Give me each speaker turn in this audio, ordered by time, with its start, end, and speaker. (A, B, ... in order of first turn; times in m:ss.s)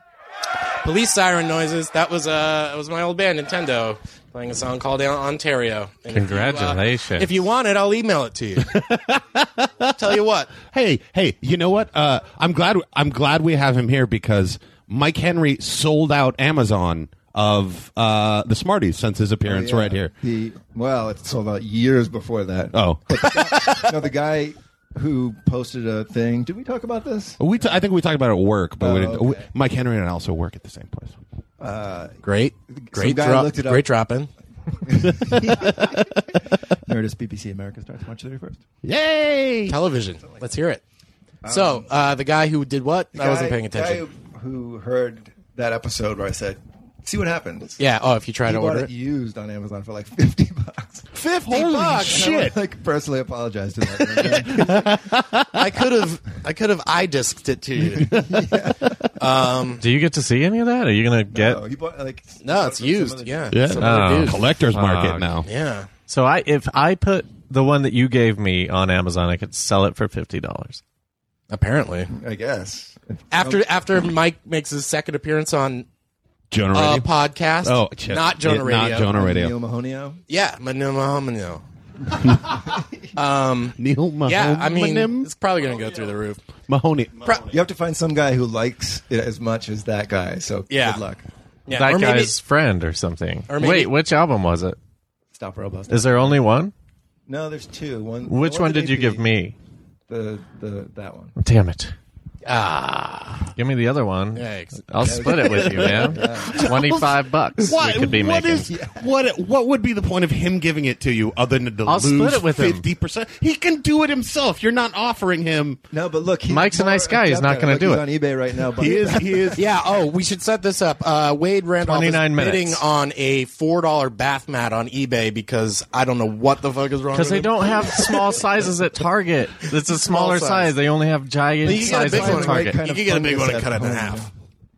0:00.8-0:08.7 A
0:06.1-0:07.3 B
0:08.7-0:09.9 C
0:09.9-0:10.5 A
0:10.6-0:20.1 C
0:19.4-0:27.4 D
0:22.7-0:23.9 C
0:27.4-0:31.2 C
0:28.8-0:29.5 D
0:31.6-0:32.2 D
0:32.2-0:34.3 A
0:32.8-0:33.9 D
0:34.8-0:36.1 D
0:35.2-0:36.0 C
0:36.8-0:38.6 D
0:38.8-0:39.7 C
0:39.7-0:40.8 A
0:41.4-0:41.9 D
0:41.5-0:44.0 A
0:43.1-0:47.8 D
0:47.8-0:48.9 A
0:48.4-0:51.1 D
0:51.1-0:52.6 C
0:51.5-0:52.3 A
0:52.0-0:55.0 D
0:54.0-0:55.5 C
0:55.5-0:58.1 A
0:58.0-0:58.6 C
0:58.0-0:58.9 D
0:59.2-0:59.8 A
0:59.8-1:01.6 B
1:01.3-1:03.6 D
1:02.4-1:04.4 A
1:03.5-1:05.5 C
1:03.8-1:05.3 B
1:05.4-1:05.9 A
1:06.1-1:10.8 B
1:11.5-1:12.1 A
1:12.1-1:13.6 D
1:13.3-1:15.8 A
1:16.5-1:17.1 C
1:16.7-1:19.1 A
1:17.6-1:19.5 C
1:19.1-1:20.2 D
1:20.3-1:21.6 A
1:23.1-1:26.4 A
1:23.8-1:25.3 C
1:26.7-1:27.4 C
1:27.5-1:31.2 D
1:30.7-1:31.0 A
1:31.7-1:32.4 A
1:31.7-1:34.8 B
1:33.5-1:33.9 A
1:35.3-1:36.4 D
1:35.9-1:36.7 B
1:37.3-1:39.2 D
1:38.3-1:39.5 B
1:40.1-1:41.3 D
1:41.4-1:41.9 B
1:42.4-1:43.5 A
1:43.6-1:48.7 B
1:44.4-1:45.4 A
1:45.0-1:46.8 D
1:45.4-1:55.8 C
1:48.7-1:49.0 D
1:51.8-1:52.8 B
1:55.9-1:59.6 D
1:56.5-1:58.0 B
1:58.8-1:59.6 C
1:59.6-2:08.4 A
2:01.8-2:02.8 B
2:07.1-2:12.8 B
2:10.0-2:10.7 A
2:11.6-2:14.2 A
2:11.6-2:14.3 D